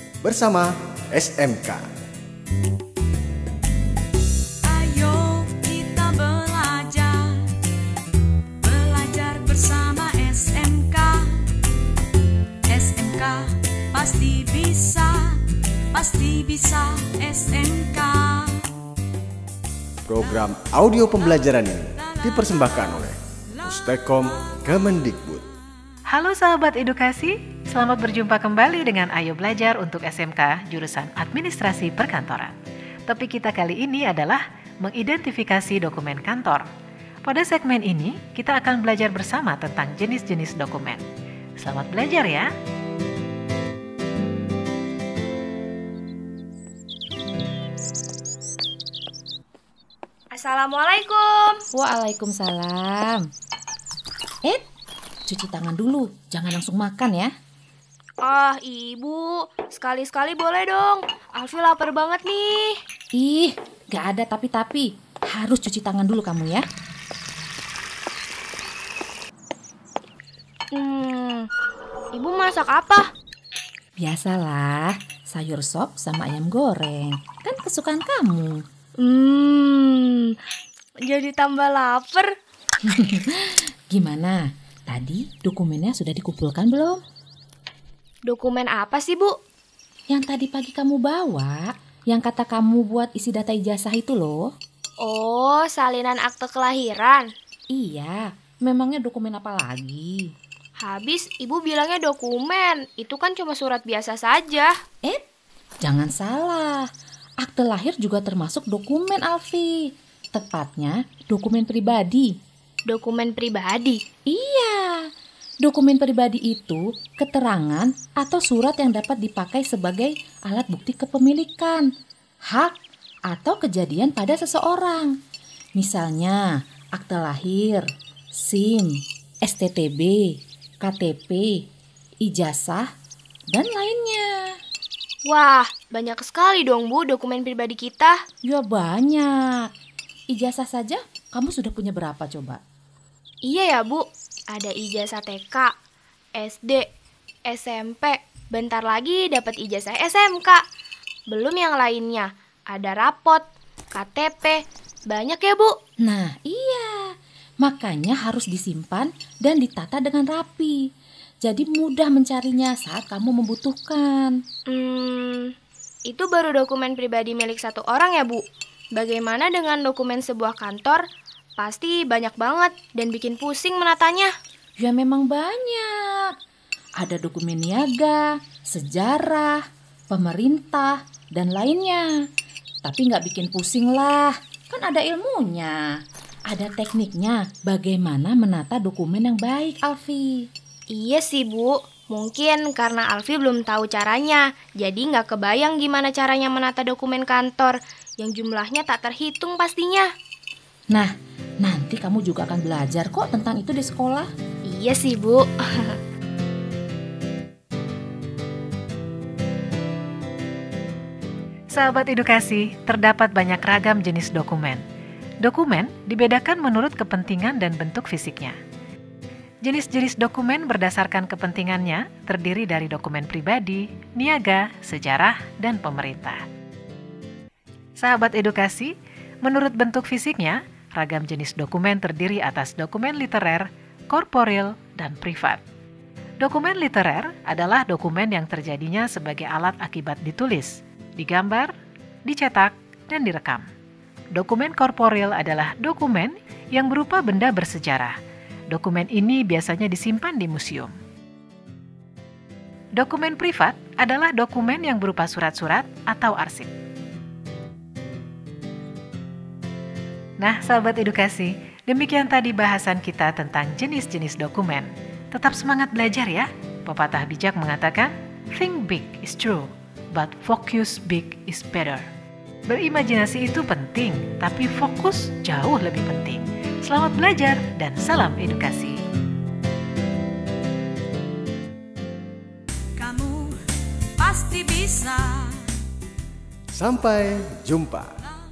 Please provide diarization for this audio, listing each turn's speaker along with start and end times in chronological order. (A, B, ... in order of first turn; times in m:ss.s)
0:00.2-0:01.8 A
0:04.6-0:07.5 B
0:08.6-0:11.3 B
0:12.7-0:18.7 B
0:20.0-0:25.4 A
0:26.1-0:32.6 C
0:33.1-0:36.6 C
0:37.3-0:41.0 C
0:41.6-0:42.5 C
0:50.3-0:51.6 D
0:51.7-0:53.3 E
0:55.3-0:57.3 E
0:58.2-1:02.8 D
1:03.2-1:06.6 E
1:10.7-1:11.5 D
1:12.1-1:13.1 D
1:14.0-1:18.6 E
1:19.0-1:20.3 D
1:21.0-1:22.3 D
1:22.8-1:27.0 E
1:28.3-1:29.3 D
1:30.1-1:34.5 E
1:35.0-1:37.3 D
1:37.7-1:40.3 E
1:40.8-1:44.7 D
1:45.8-1:46.9 E
1:47.4-1:49.8 E
1:50.3-1:52.3 E
1:52.9-1:54.0 D
1:54.3-1:55.0 E
1:55.6-2:01.9 E
2:02.5-2:02.8 E
2:03.3-2:05.1 E
2:05.8-2:06.4 E
2:07.0-2:11.7 E
2:12.2-2:12.9 E
2:13.5-2:14.3 E
2:15.2-2:18.1 D
2:18.4-2:19.7 E
2:20.3-2:22.6 E
2:23.4-2:25.7 D
2:26.4-2:26.8 D
2:27.5-2:30.6 D
2:31.3-2:35.7 D
2:36.0-2:40.8 E
2:41.4-2:44.4 E
2:44.7-2:45.5 D
2:46.1-2:48.4 D
2:48.9-2:51.0 D
2:51.6-2:54.3 D
2:54.8-2:56.3 E
2:57.0-3:02.1 E
3:02.8-3:05.8 E
3:06.5-3:10.4 E
3:10.9-3:20.1 D
3:21.6-3:24.3 E
3:24.7-3:26.0 D
3:31.7-3:34.8 C
3:35.4-3:38.6 C
3:39.6-3:46.4 C
3:48.0-3:55.6 C
3:56.4-4:01.7 C
4:02.2-4:03.7 C
4:04.3-4:08.2 C
4:08.7-4:10.9 C
4:13.0-4:16.7 C
4:20.4-4:32.1 C
4:32.7-4:39.0 C
4:43.0-4:43.6 B
4:44.2-4:45.7 B
4:46.7-4:48.1 A